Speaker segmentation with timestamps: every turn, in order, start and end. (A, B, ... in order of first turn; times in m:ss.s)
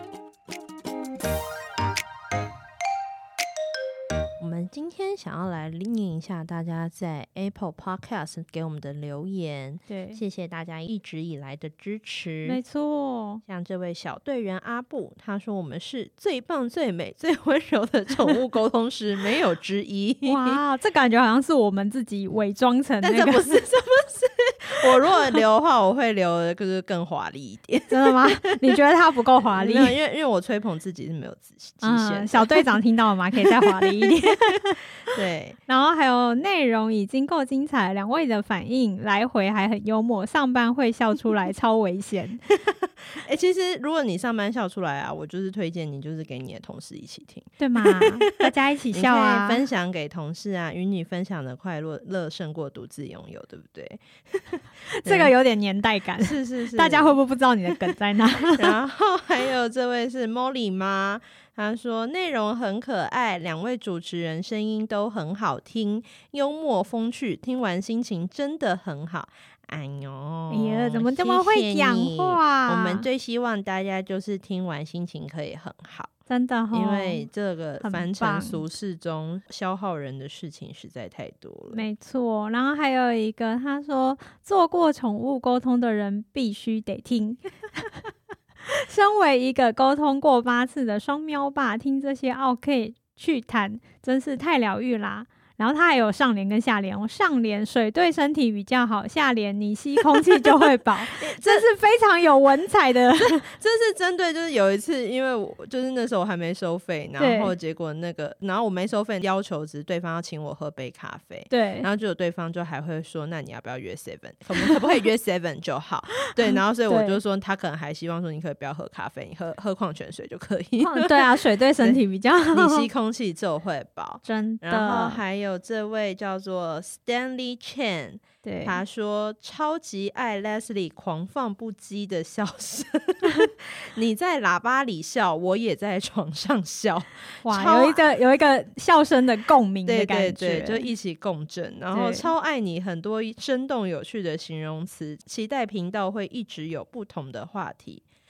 0:04.4-0:12.6 A
0:09.9-0:10.2 B
0:12.4-0:13.4 B
0:13.5-0:20.6 A
0:20.2-0:23.6 B
0:23.0-0:28.8 A
0:24.9-0:25.2 B
0:27.9-0:29.9 B
0:29.4-0:32.8 A
0:31.8-0:34.8 B
0:33.4-0:34.4 A
0:35.0-0:35.6 A
0:35.7-0:42.4 B
0:42.5-0:55.3 A
0:47.6-0:49.6 B
0:54.9-0:58.8 B
0:56.2-0:57.2 A
0:58.5-1:16.1 A
1:10.5-1:13.0 B
1:16.3-1:17.2 B
1:16.7-1:21.8 A
1:17.8-1:18.6 B
1:21.7-1:28.1 B
1:28.6-1:43.4 B
1:41.1-1:41.6 A
1:43.2-2:02.0 A
1:47.2-1:47.5 B
1:51.5-1:51.9 B
1:56.5-1:57.2 B
2:00.8-2:02.9 B
2:02.5-2:18.0 A
2:04.2-2:05.2 B
2:08.4-2:08.8 B
2:17.4-2:20.8 B
2:19.8-2:28.0 A
2:21.9-2:22.3 B